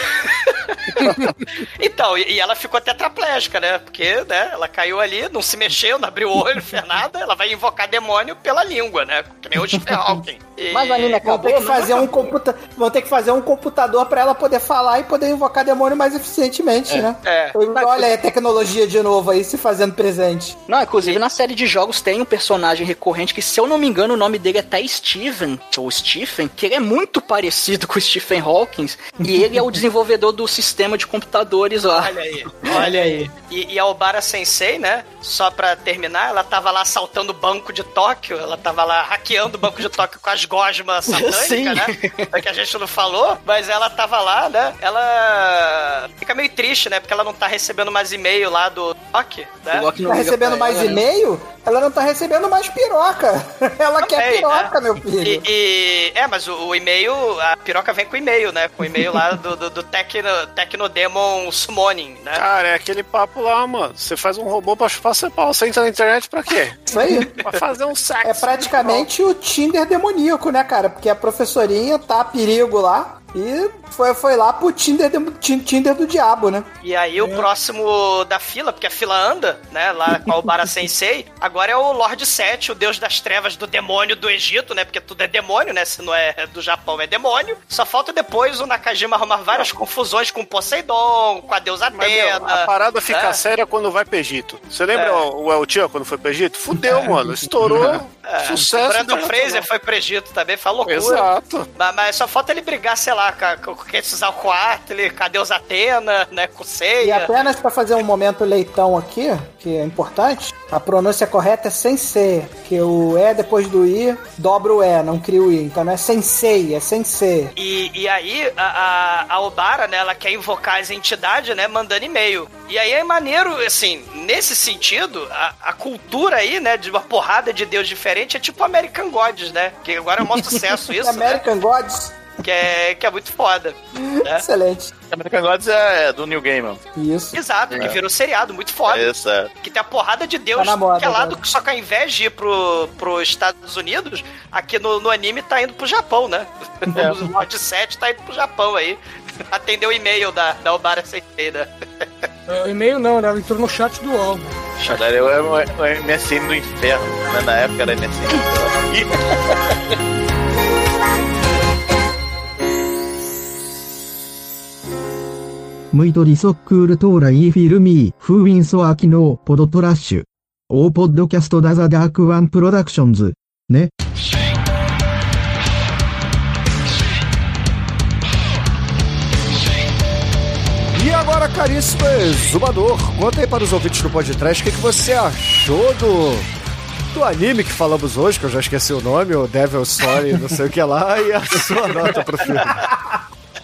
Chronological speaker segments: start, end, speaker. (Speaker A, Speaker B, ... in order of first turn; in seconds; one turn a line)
Speaker A: 0.2-1.1
Speaker A: 1.8-12.1
Speaker B: 9.6-10.2
Speaker C: 10.7-12.0
Speaker B: 11.2-20.6
Speaker A: 17.2-17.6
Speaker C: 17.7-18.1
Speaker C: 20.7-32.1
Speaker B: 29.2-29.6
Speaker A: 32.0-49.9
Speaker B: 32.7-33.3
Speaker C: 41.1-42.4
Speaker C: 49.7-51.0
Speaker B: 50.1-55.5
Speaker A: 54.0-62.4
Speaker D: 62.3-69.1
Speaker B: 66.9-67.4
Speaker B: 68.2-76.7
Speaker A: 76.8-93.4
Speaker E: 77.2-77.5
Speaker D: 92.0-99.7
Speaker A: 94.9-95.2
Speaker A: 97.8-107.3
Speaker D: 100.9-101.7
Speaker B: 107.0-117.5
Speaker A: 117.6-131.4
Speaker B: 130.4-132.2
Speaker A: 132.4-134.5
Speaker B: 134.0-134.9
Speaker F: 135.1-136.8
Speaker B: 137.0-137.4
Speaker A: 137.3-139.1
Speaker F: 138.9-139.5
Speaker A: 139.6-152.0
Speaker B: 140.6-141.4
Speaker B: 146.9-147.3
Speaker F: 146.9-147.2
Speaker E: 152.5-154.6
Speaker F: 154.8-159.2
Speaker G: 165.9-173.9
Speaker H: 180.9-186.5
Speaker H: 187.1-192.8
Speaker B: 192.7-193.2